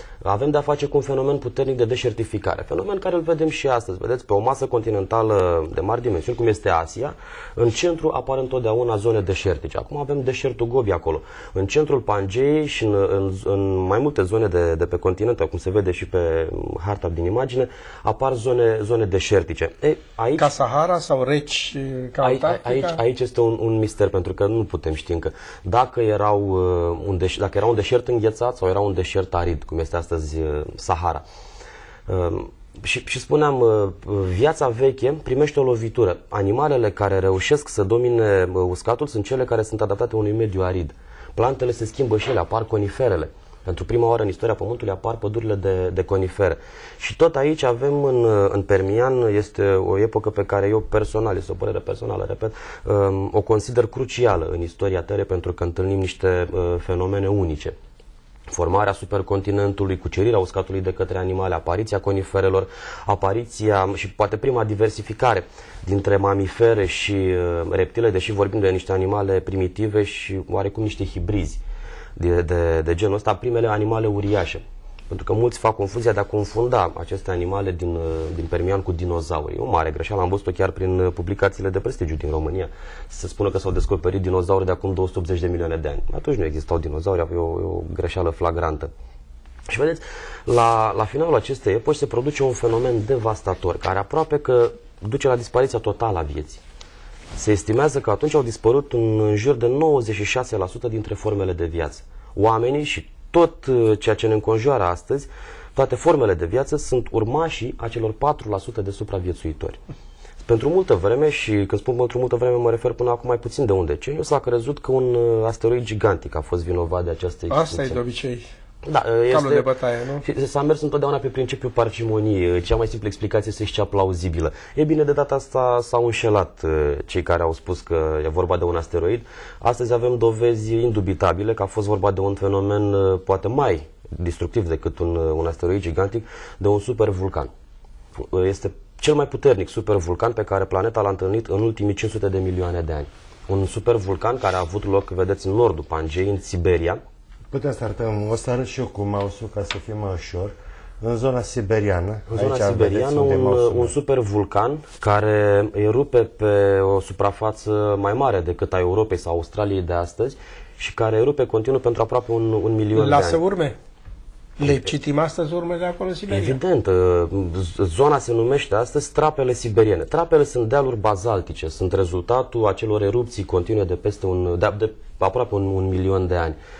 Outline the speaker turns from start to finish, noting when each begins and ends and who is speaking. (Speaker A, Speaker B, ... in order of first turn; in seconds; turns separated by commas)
Speaker A: 0.2-20.5, Speaker B: 20.4-23.0, Speaker A: 22.2-31.2, Speaker A: 32.1-57.8, Speaker A: 58.5-71.6, Speaker A: 72.2-88.9, Speaker A: 89.7-96.6, Speaker A: 97.4-109.8, Speaker A: 110.4-118.0, Speaker B: 117.5-118.5, Speaker A: 118.8-119.7, Speaker B: 119.3-120.2, Speaker A: 120.2-137.5, Speaker A: 138.2-147.0, Speaker C: 147.5-153.9, Speaker A: 152.3-163.4, Speaker B: 162.9-163.8, Speaker B: 164.6-166.6, Speaker A: 164.6-164.9, Speaker A: 166.3-176.6